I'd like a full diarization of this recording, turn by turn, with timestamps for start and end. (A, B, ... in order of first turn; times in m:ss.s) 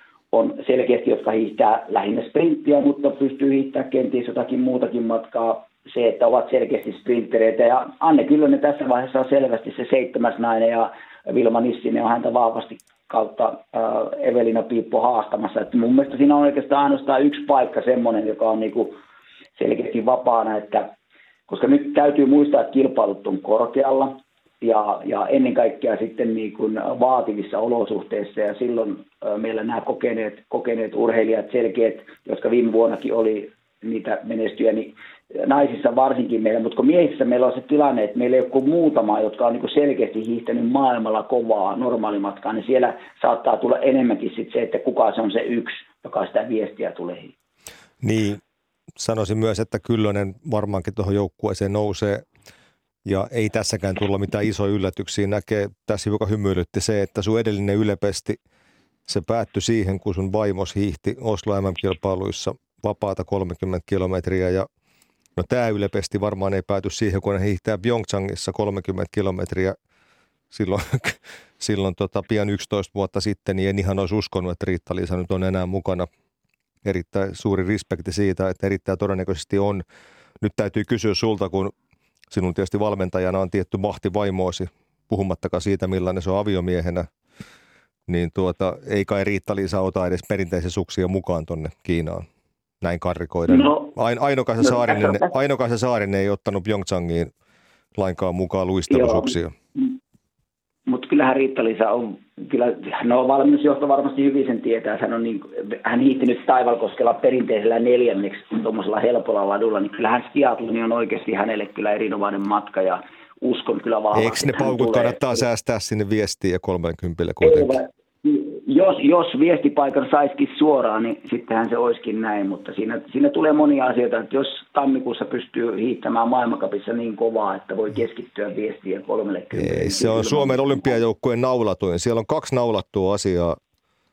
0:00.3-0:19.0 A
0:19.6-0:20.9 A
0:21.5-0:47.3 A
0:48.0-0:48.4 B
0:49.0-0:52.2 B
0:53.0-0:58.4 B
0:59.1-1:04.7 B
1:05.4-1:09.8 B
1:10.5-1:16.1 B
1:16.8-1:19.8 B
1:20.4-1:21.7 B
1:22.3-1:27.1 B
1:28.1-1:32.2 B
1:32.8-1:37.3 B
1:33.5-1:33.9 A
1:34.6-1:35.2 A
1:38.0-1:39.5 B
1:38.9-1:39.9 A
1:40.9-1:55.4 A
1:54.1-1:57.8 B
1:57.4-2:10.8 A
2:09.5-2:13.6 B